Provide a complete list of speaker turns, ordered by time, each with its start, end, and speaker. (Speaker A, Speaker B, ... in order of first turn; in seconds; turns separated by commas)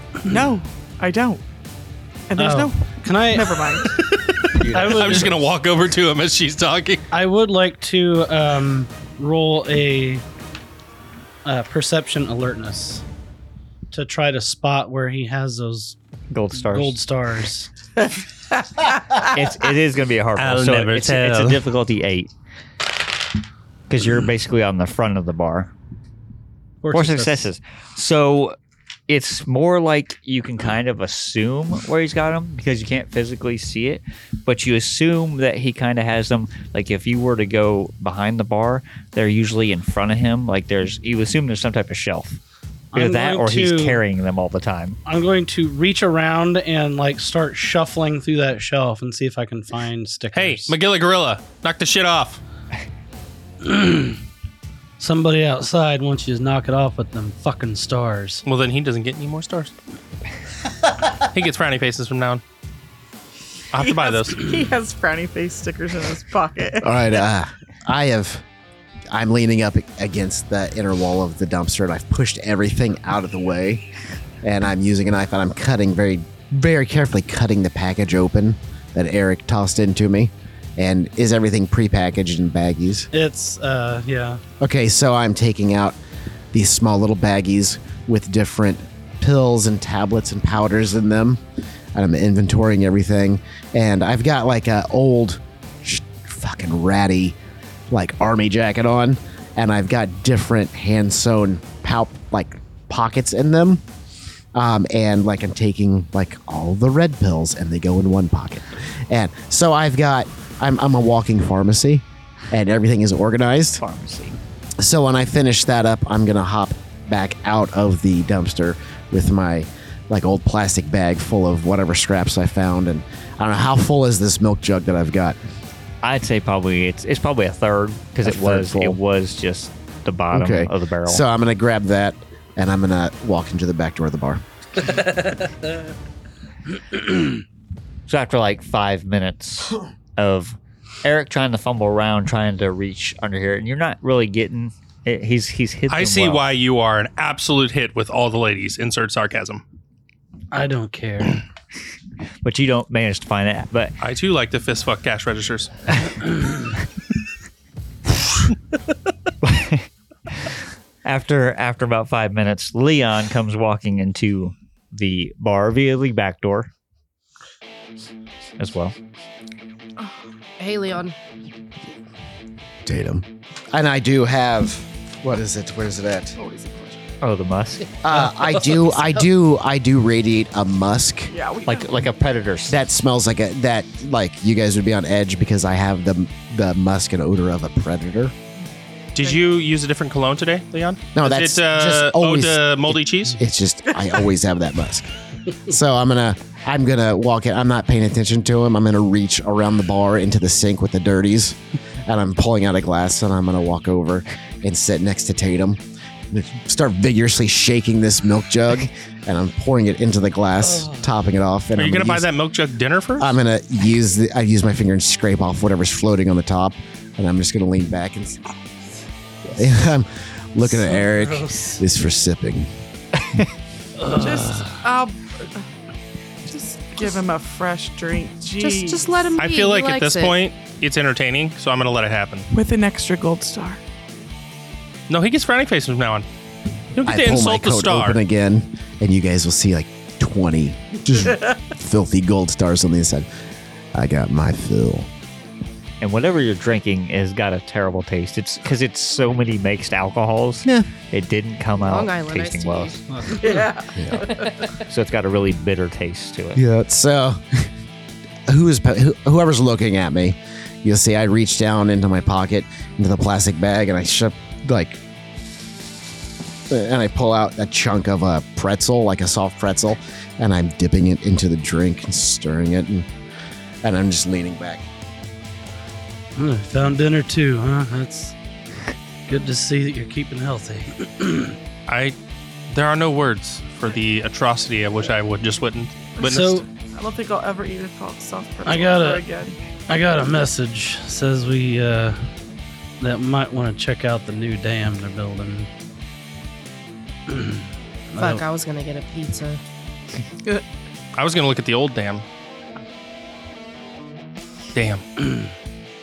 Speaker A: 0.3-1.4, Speaker A: 2.3-3.9, Speaker B: 2.4-3.8, Speaker C: 3.9-7.1, Speaker D: 4.6-5.3, Speaker B: 4.7-5.4, Speaker B: 7.1-10.2, Speaker B: 11.4-13.0, Speaker B: 13.9-16.0, Speaker D: 16.3-17.0, Speaker B: 16.6-17.7, Speaker D: 19.1-22.3, Speaker C: 20.4-21.6, Speaker D: 23.9-25.7, Speaker B: 26.8-27.5, Speaker D: 26.9-28.6, Speaker D: 29.1-42.4, Speaker B: 42.9-44.0, Speaker D: 42.9-45.0, Speaker B: 45.0-50.8, Speaker C: 50.3-52.4, Speaker B: 53.6-54.2, Speaker B: 55.0-58.4, Speaker C: 58.4-59.7, Speaker C: 61.1-62.4, Speaker C: 63.7-64.5, Speaker A: 63.7-66.9, Speaker E: 66.8-68.4, Speaker E: 69.1-73.8, Speaker E: 74.4-83.1, Speaker B: 83.1-84.4, Speaker E: 84.6-86.0, Speaker E: 86.5-91.4, Speaker E: 91.9-97.4, Speaker E: 97.9-103.8, Speaker E: 104.5-113.8, Speaker D: 113.8-114.4, Speaker E: 114.8-125.4, Speaker D: 126.0-131.2, Speaker E: 128.2-129.0, Speaker E: 130.3-134.8, Speaker B: 135.2-135.5, Speaker D: 138.1-146.4, Speaker C: 145.9-149.6, Speaker B: 150.5-151.4, Speaker D: 152.4-153.9, Speaker C: 154.0-155.9, Speaker D: 159.4-160.5, Speaker D: 161.0-166.7, Speaker D: 168.6-168.9, Speaker F: 170.6-171.1, Speaker E: 172.8-176.4, Speaker A: 176.4-177.0, Speaker D: 177.2-177.9, Speaker E: 178.0-181.3, Speaker A: 181.3-182.1, Speaker D: 181.7-182.8, Speaker E: 182.7-188.3, Speaker C: 189.1-193.4, Speaker E: 191.1-195.1, Speaker E: 195.6-212.3, Speaker C: 211.8-213.3, Speaker E: 213.2-218.4, Speaker E: 219.5-222.7, Speaker B: 220.7-221.8, Speaker B: 224.0-224.8, Speaker A: 224.1-225.6, Speaker A: 226.4-229.3, Speaker F: 228.6-230.3, Speaker C: 229.4-232.5, Speaker A: 232.5-233.8, Speaker C: 235.1-236.2, Speaker C: 236.9-238.2, Speaker E: 237.0-243.3, Speaker E: 243.9-245.1, Speaker D: 246.0-253.0, Speaker F: 251.8-253.0, Speaker B: 253.2-253.6, Speaker A: 253.3-254.6, Speaker E: 253.9-254.3, Speaker D: 254.7-256.6, Speaker E: 256.6-257.7, Speaker E: 258.5-265.0, Speaker E: 266.7-273.1, Speaker E: 273.8-274.9, Speaker B: 276.4-278.3, Speaker B: 279.3-281.6, Speaker C: 281.9-282.1, Speaker C: 282.7-286.6, Speaker B: 286.2-286.6, Speaker A: 286.7-289.6, Speaker B: 288.6-289.2, Speaker B: 289.9-292.2, Speaker B: 293.0-295.7, Speaker B: 297.3-298.4, Speaker F: 298.2-299.6, Speaker C: 301.1-302.2, Speaker C: 304.7-305.0, Speaker B: 305.2-305.5